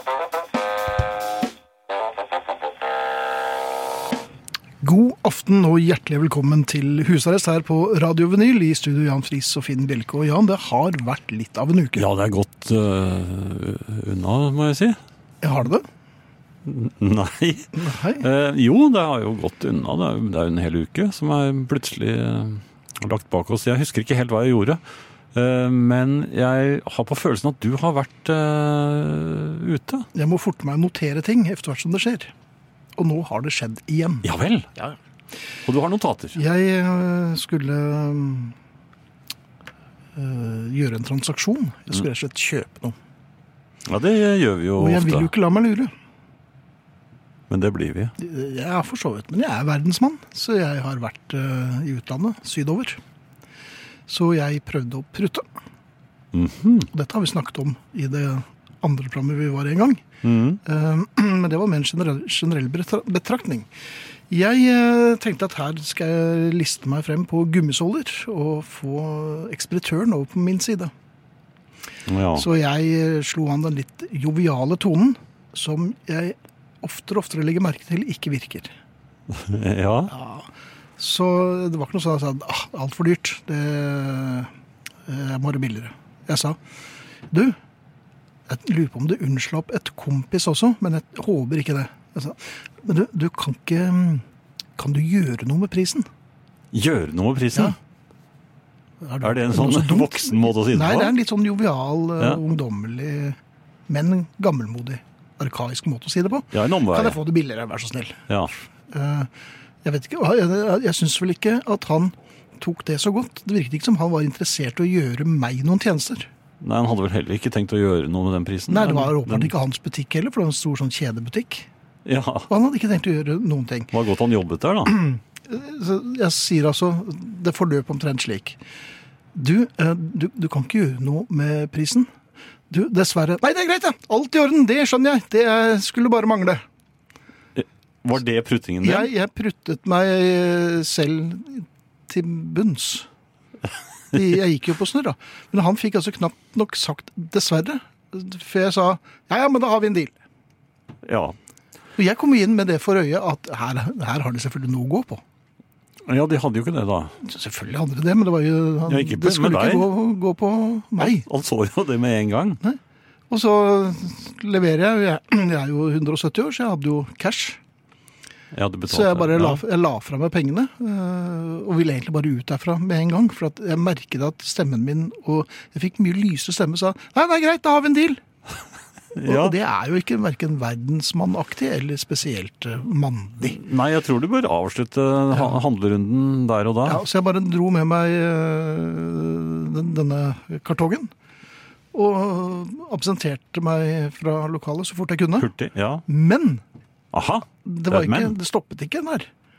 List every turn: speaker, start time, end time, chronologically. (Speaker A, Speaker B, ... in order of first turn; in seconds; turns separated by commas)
Speaker A: 4.8-12.1, Speaker B: 12.0-15.0, Speaker A: 15.4-15.8, Speaker B: 16.6-24.8, Speaker A: 17.7-18.2, Speaker B: 25.3-30.1, Speaker A: 30.1-32.3, Speaker A: 33.0-34.2, Speaker B: 34.2-34.7, Speaker B: 35.6-36.4, Speaker A: 36.3-38.5, Speaker A: 40.1-43.0, Speaker B: 43.9-45.3, Speaker A: 44.8-45.9, Speaker B: 47.5-48.1, Speaker A: 48.2-53.0, Speaker A: 54.1-55.5, Speaker B: 56.3-56.9, Speaker A: 56.9-60.0, Speaker B: 60.2-60.6, Speaker A: 60.6-63.7, Speaker A: 64.3-70.9, Speaker B: 72.1-72.5, Speaker A: 72.3-78.7, Speaker B: 79.3-80.1, Speaker A: 80.1-84.5, Speaker A: 85.1-86.6, Speaker A: 87.3-87.5, Speaker A: 88.5-94.2, Speaker A: 94.8-96.1, Speaker B: 96.7-97.8, Speaker A: 99.0-108.2, Speaker B: 99.2-101.1, Speaker B: 106.5-107.2, Speaker A: 108.9-109.3, Speaker A: 109.8-116.3, Speaker B: 116.6-119.5, Speaker A: 118.7-121.7, Speaker B: 122.0-122.5, Speaker A: 122.5-123.9, Speaker B: 123.9-125.0, Speaker A: 124.8-128.6, Speaker A: 129.3-132.1, Speaker A: 132.7-136.6, Speaker B: 137.6-139.1, Speaker A: 138.8-143.1, Speaker A: 144.1-150.2, Speaker B: 151.0-151.3, Speaker A: 152.0-155.2, Speaker B: 156.1-157.1, Speaker A: 157.2-161.2, Speaker B: 158.9-159.9, Speaker B: 161.0-162.6, Speaker A: 163.3-167.6, Speaker B: 168.5-169.6, Speaker A: 168.9-178.2, Speaker B: 179.1-179.5, Speaker A: 179.2-183.6, Speaker B: 183.4-187.0, Speaker A: 186.8-191.1, Speaker A: 191.9-195.5, Speaker B: 195.4-196.0, Speaker A: 196.1-196.6, Speaker B: 197.1-198.3, Speaker A: 197.6-199.3